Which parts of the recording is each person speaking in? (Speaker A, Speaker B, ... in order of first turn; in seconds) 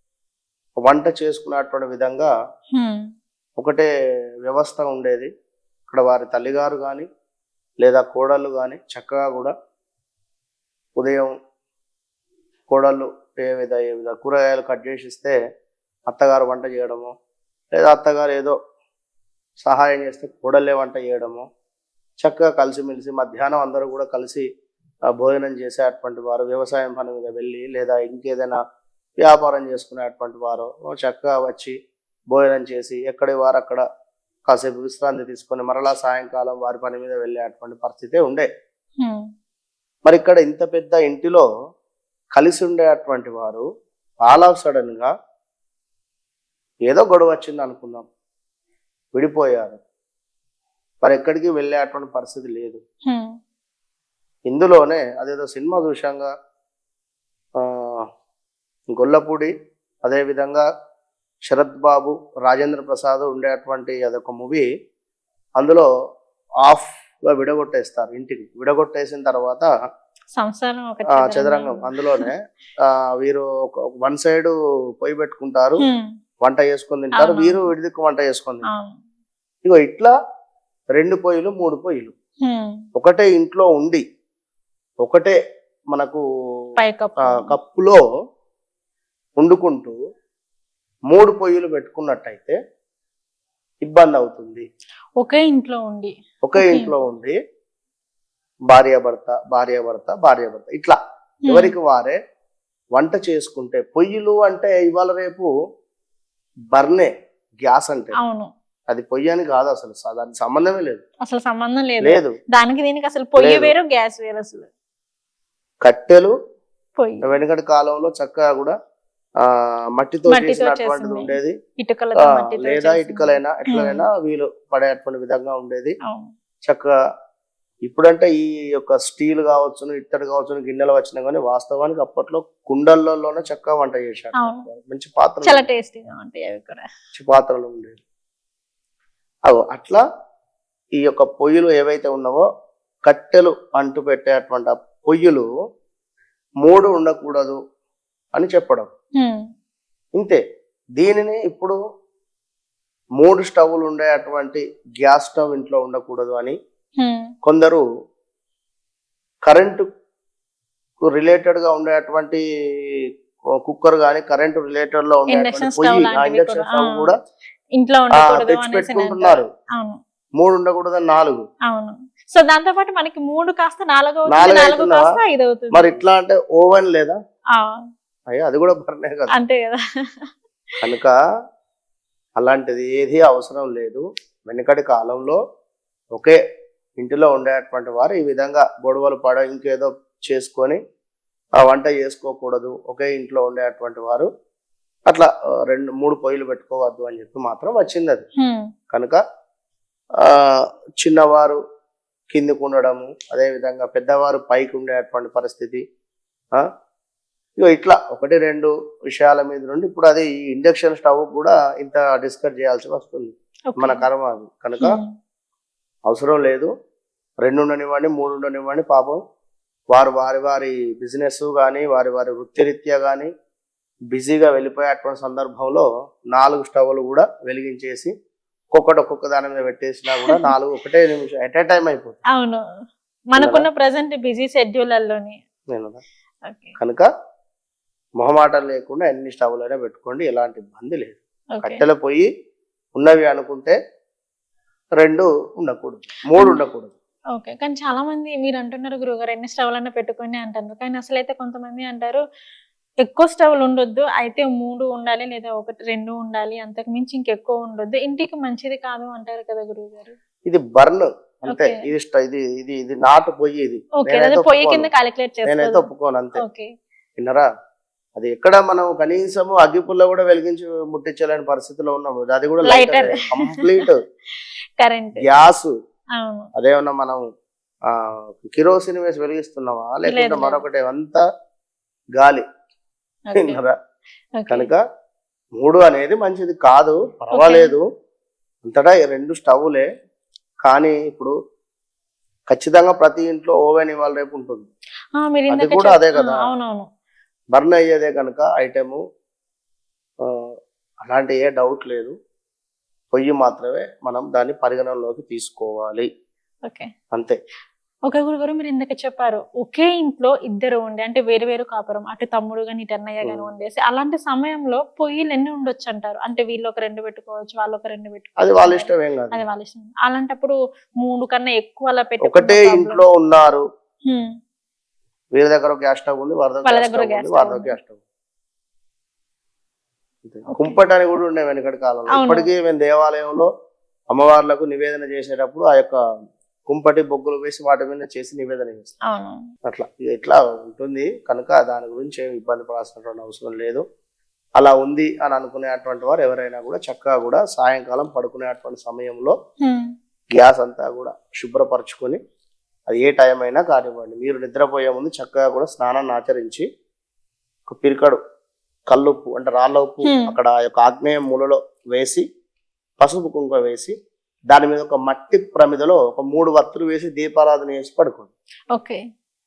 Speaker A: 0.8-2.3, 3.6-3.9, 4.5-5.3, 5.9-7.1, 7.8-9.5, 11.0-11.3, 12.7-15.3, 16.1-17.1, 17.8-18.6, 19.6-21.4, 22.2-24.4, 25.2-28.6, 29.2-31.8, 32.3-33.8, 34.5-38.5, 40.1-41.5, 42.4-43.7, 44.2-45.1, 46.9-48.1, 49.1-49.8, 51.0-52.8, 54.5-56.3, 57.6-58.0, 58.9-59.5, 60.0-60.7, 61.5-64.7, 65.6-65.9, 66.7-69.7, 71.2-72.4, 72.9-75.8, 76.4-78.7, 79.7-80.1, 81.0-82.1, 82.9-84.0, 85.0-85.4, 85.9-86.2, 87.3-88.0, 89.4-90.0, 91.1-92.6, 93.8-94.7, 96.4-97.3, 98.7-102.2, 103.0-105.5, 106.7-107.1, 107.6-108.2, 108.9-111.0, 112.0-112.3, 113.4-113.7, 115.8-116.3, 117.2-118.7, 119.4-121.5, 122.2-126.0, 127.8-135.6, 137.2-138.0, 139.5-140.0, 141.0-142.5, 143.1-145.5, 146.6-147.6, 148.3-148.9, 151.0-151.8, 153.2-156.6, 157.4-157.8, 159.5-159.8, 161.0-162.4, 163.7-167.2, 168.2-169.5, 170.4-171.4, 174.3-175.1, 175.7-177.2, 178.3-179.4, 180.8-181.2, 182.4-185.4, 187.0-190.8, 191.6-194.3, 195.1-198.2, 198.9-199.2, 200.2-201.6, 202.3-205.8, 207.6-215.0, 216.1-216.7, 217.4-219.2, 219.9-223.3, 224.1-228.1, 228.7-232.2, 233.4-233.7, 235.7-236.0, 236.8-237.1, 238.2-242.3, 243.0-243.8, 245.0-246.9, 260.5-264.9, 265.5-266.4, 267.2-267.5, 268.2-274.0, 275.2-275.7, 276.6-277.2, 277.9-281.2, 282.2-282.4, 283.4-283.8, 284.5-284.8, 285.6-287.9, 288.6-289.9, 290.6-291.4, 292.5-294.7, 295.5-296.5, 297.5-299.0, 301.1-302.1, 303.1-306.1, 307.1-307.4, 318.4-319.4, 322.3-323.6, 325.4-328.0, 330.2-333.5, 334.1-336.0, 336.7-338.9, 339.7-343.8, 344.6-349.4, 350.3-352.2, 352.9-356.6, 357.7-358.2, 358.9-362.2, 363.0-363.9, 364.5-368.3
Speaker B: 2.8-3.1, 53.1-53.3, 70.4-72.2, 75.8-76.1, 77.2-77.7, 78.7-79.0, 82.4-82.8, 86.8-87.5, 95.2-97.0, 101.5-101.7, 108.2-108.5, 111.2-114.7, 117.0-117.3, 120.3-124.0, 126.0-126.3, 134.4-134.7, 135.4-136.8, 157.0-157.3, 165.3-167.1, 167.8-170.0, 171.7-176.0, 177.5-177.9, 179.3-180.3, 198.4-198.7, 213.7-214.0, 214.8-215.1, 232.3-232.6, 233.3-235.4, 236.5-236.7, 241.6-241.8, 247.3-252.2, 253.0-260.2, 261.5-261.8, 264.0-265.9, 266.4-266.7, 272.7-273.8, 274.8-275.2, 276.2-276.5, 280.1-280.6, 283.3-283.6, 284.4-284.7, 287.4-287.7, 295.1-296.9, 308.1-323.0, 326.6-327.8, 332.1-332.5, 339.1-339.4, 349.6-349.9, 360.1-360.3, 368.7-369.0